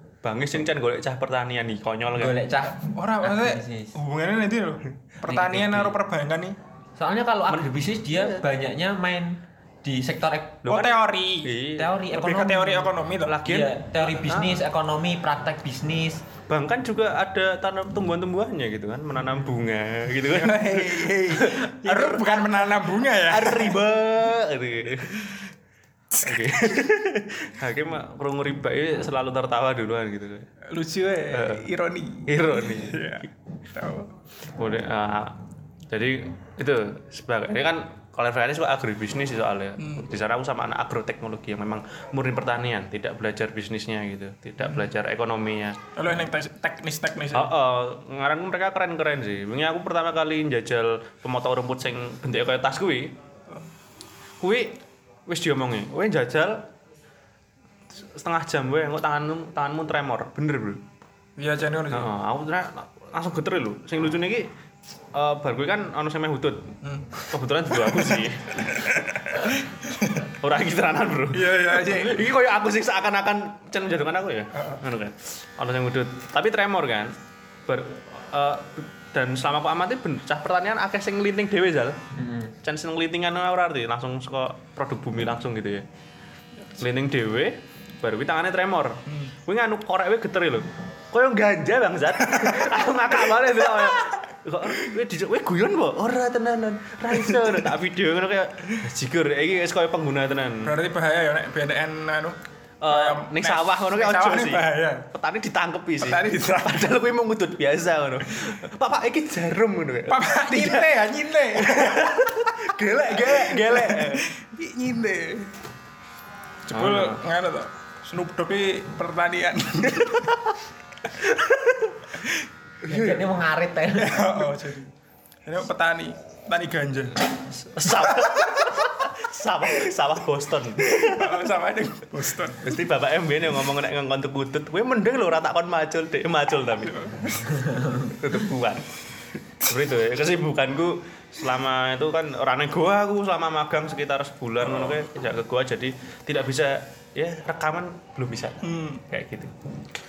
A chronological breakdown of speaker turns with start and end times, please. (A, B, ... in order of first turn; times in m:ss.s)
0:00.2-0:02.4 A
0:02.2-0:04.0 B
0:02.7-0:06.6 C
0:05.3-0:06.0 B
0:07.0-0:10.7 B
0:07.5-0:08.4 A
0:10.7-0:11.6 C
0:10.7-0:11.9 A
0:11.8-0:12.9 B
0:12.1-0:13.4 C
0:13.2-0:14.6 A
0:13.4-0:16.2 B
0:16.5-0:22.7 A
0:20.3-0:23.8 C
0:23.2-0:25.4 A
0:26.2-0:30.5 A
0:26.4-0:26.8 C
0:30.6-0:34.1 C
0:31.3-0:31.7 A
0:32.3-0:33.1 A
0:34.6-0:35.4 A
0:35.9-0:45.8 A
0:39.8-0:40.1 C
0:46.0-0:47.5 C
0:47.3-0:53.2 A
0:54.4-0:56.6 A
0:57.9-1:00.8 A
1:01.4-1:02.1 C
1:01.9-1:04.5 A
1:05.1-1:06.8 A
1:06.8-1:07.3 C
1:07.3-1:08.8 A
1:07.9-1:10.3 C
1:10.3-1:17.1 A
1:11.3-1:12.3 C
1:14.6-1:14.8 C
1:17.7-1:22.0 A
1:22.1-1:22.6 B
1:22.6-1:25.8 A
1:26.8-1:40.7 A
1:32.3-1:32.8 C
1:37.2-1:37.6 C
1:40.6-1:42.4 C
1:42.8-1:51.0 A
1:42.9-1:45.1 C
1:46.0-1:46.9 C
1:50.1-1:55.5 C
1:51.6-1:54.3 A
1:56.7-2:00.4 C
1:56.7-1:57.2 A
2:02.9-2:03.2 A
2:02.9-2:04.5 B
2:04.0-2:04.9 C
2:05.4-2:07.3 C
2:07.5-2:11.3 A
2:08.0-2:08.9 C
2:10.8-2:12.8 C
2:12.6-2:17.2 A
2:16.9-2:17.7 C
2:17.6-2:18.1 B
2:18.1-2:18.9 A
2:19.6-2:29.5 A
2:24.6-2:25.0 C
2:28.6-2:29.0 C